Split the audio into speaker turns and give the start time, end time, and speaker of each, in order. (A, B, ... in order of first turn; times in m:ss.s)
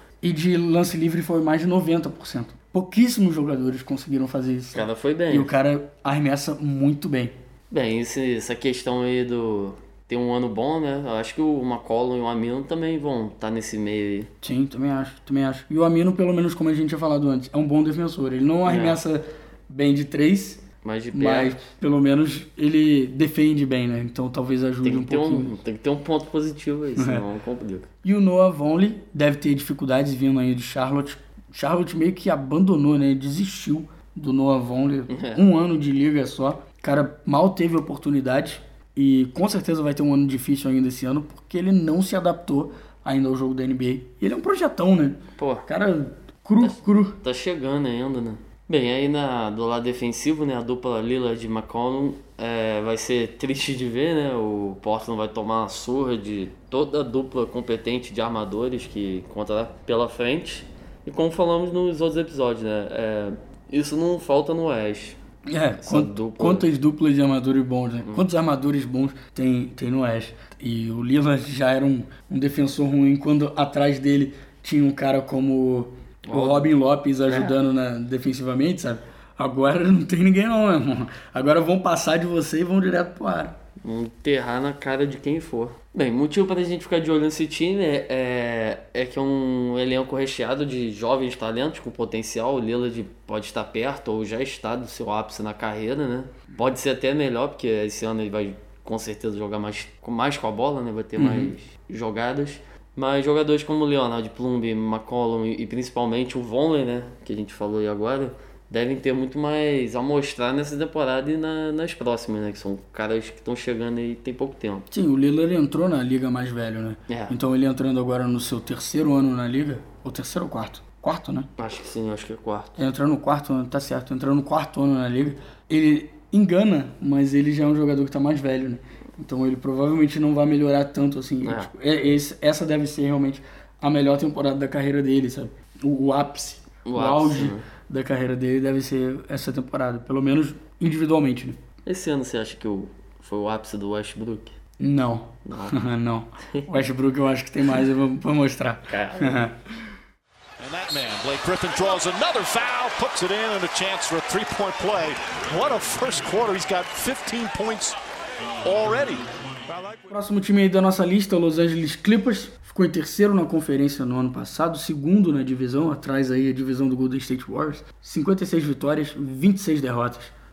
0:00.2-0:07.3 A
0:04.8-0:05.5 B
0:07.7-0:14.3 B
0:14.4-0:25.5 A
0:18.6-0:19.0 B
0:20.8-0:21.6 B
0:24.8-0:27.9 B
0:27.0-0:27.2 A
0:28.0-0:47.2 A
0:35.1-0:35.4 B
0:45.4-0:45.7 B
0:46.6-1:05.2 B
1:05.5-1:23.6 A
1:05.8-1:06.7 B
1:16.3-1:16.7 B
1:17.3-1:17.6 B
1:23.8-1:54.9 B
1:41.2-1:41.5 A
1:54.9-2:01.5 A
1:57.1-1:57.4 B
2:01.6-2:02.8 B
2:02.8-2:21.6 A
2:11.4-2:11.7 B
2:16.8-2:17.6 B
2:21.9-2:24.5 B
2:24.8-2:29.6 A
2:25.5-2:25.8 B
2:28.9-2:29.4 B
2:30.6-2:38.0 C
2:38.6-2:40.1 C
2:40.1-2:50.3 A